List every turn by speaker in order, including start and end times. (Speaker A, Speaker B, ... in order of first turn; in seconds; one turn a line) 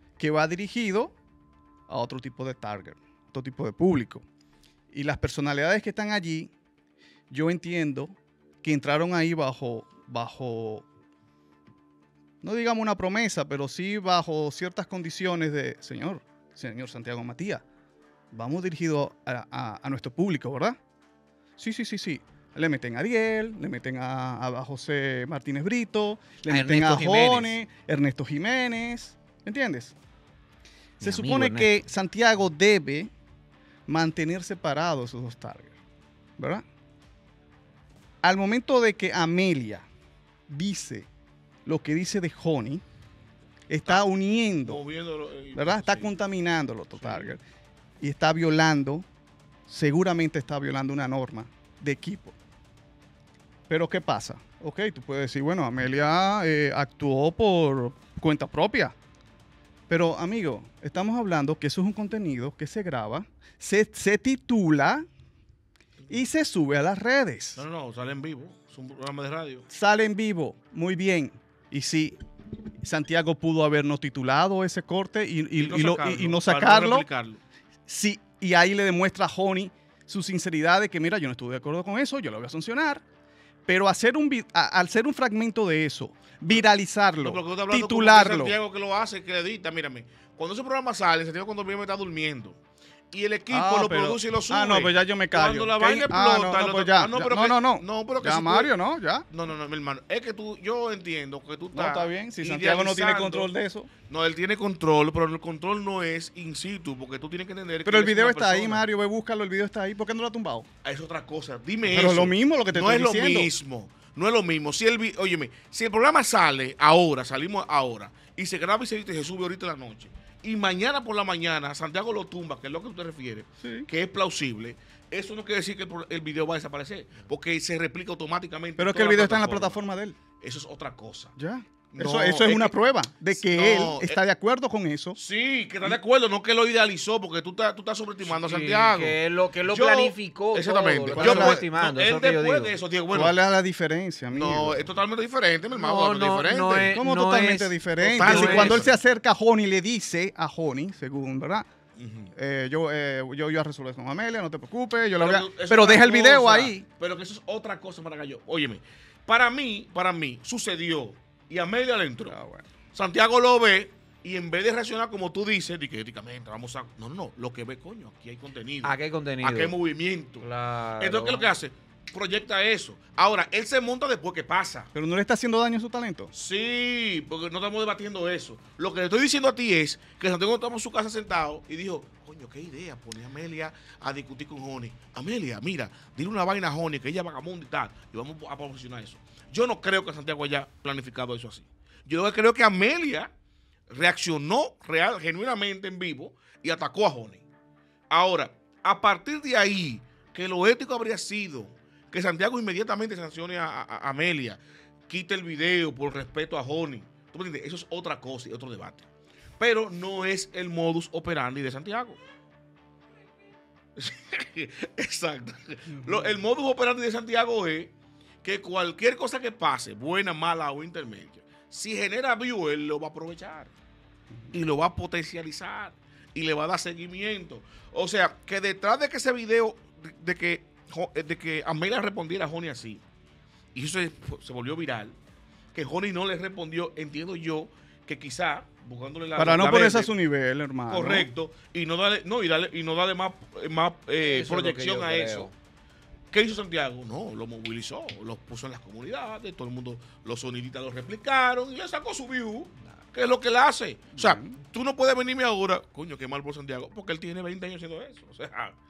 Speaker A: 0.2-1.1
Speaker A: 1.9-4.2
Speaker A: 4.9-6.5
Speaker A: 7.3-10.8
Speaker A: 12.4-17.6
Speaker A: 18.3-20.8
Speaker A: 21.6-30.0
Speaker B: 26.5-27.5
Speaker B: 31.0-31.7
Speaker A: 31.0-33.1
Speaker A: 33.9-35.8
Speaker A: 36.4-36.6
Speaker A: 38.2-39.9
Speaker A: 40.5-41.1
Speaker A: 41.7-42.8
Speaker A: 43.7-44.8
Speaker C: 44.6-46.2
Speaker A: 45.5-47.4
Speaker C: 47.0-47.3
Speaker A: 48.0-49.1
Speaker A: 49.7-52.4
Speaker A: 53.7-59.0
Speaker A: 59.9-65.1
Speaker A: 66.1-67.6
Speaker C: 67.6-69.7
Speaker A: 69.7-72.2
Speaker A: 72.8-77.1
Speaker C: 75.6-77.4
Speaker A: 77.9-83.0
Speaker A: 83.7-88.6
Speaker C: 87.2-92.6
Speaker C: 93.1-98.7
Speaker A: 93.5-99.3
Speaker C: 99.3-103.5
Speaker A: 101.7-103.9
Speaker C: 104.1-108.9
Speaker A: 107.8-110.7
Speaker C: 110.8-129.8
Speaker A: 111.8-113.5
Speaker A: 123.6-123.9
Speaker A: 128.8-130.2
Speaker C: 130.4-131.3
Speaker A: 131.4-135.2
Speaker C: 131.9-132.8
Speaker C: 133.3-134.2
Speaker C: 135.2-143.4
Speaker B: 138.2-142.8
Speaker A: 141.2-141.6
Speaker A: 143.1-144.9
Speaker C: 144.3-147.0
Speaker B: 145.7-148.8
Speaker A: 146.9-151.7
Speaker C: 148.0-149.0
Speaker C: 152.0-152.3
Speaker A: 152.3-156.9
Speaker C: 155.2-162.4
Speaker A: 162.3-162.7
Speaker C: 162.9-170.5
Speaker B: 168.8-169.8
Speaker B: 170.4-171.5
Speaker C: 171.0-174.9
Speaker A: 174.9-176.3
Speaker C: 176.3-193.3
Speaker C: 193.9-197.4
Speaker C: 198.1-209.1
Speaker C: 209.6-212.2
Speaker C: 214.0-217.9
Speaker A: 215.9-216.2
Speaker C: 218.4-223.7
Speaker C: 224.5-233.0
Speaker C: 233.8-235.2
Speaker C: 235.7-240.1
Speaker A: 239.4-241.3
Speaker C: 240.9-245.5
Speaker B: 244.2-245.5
Speaker C: 246.3-258.8
Speaker A: 254.2-254.6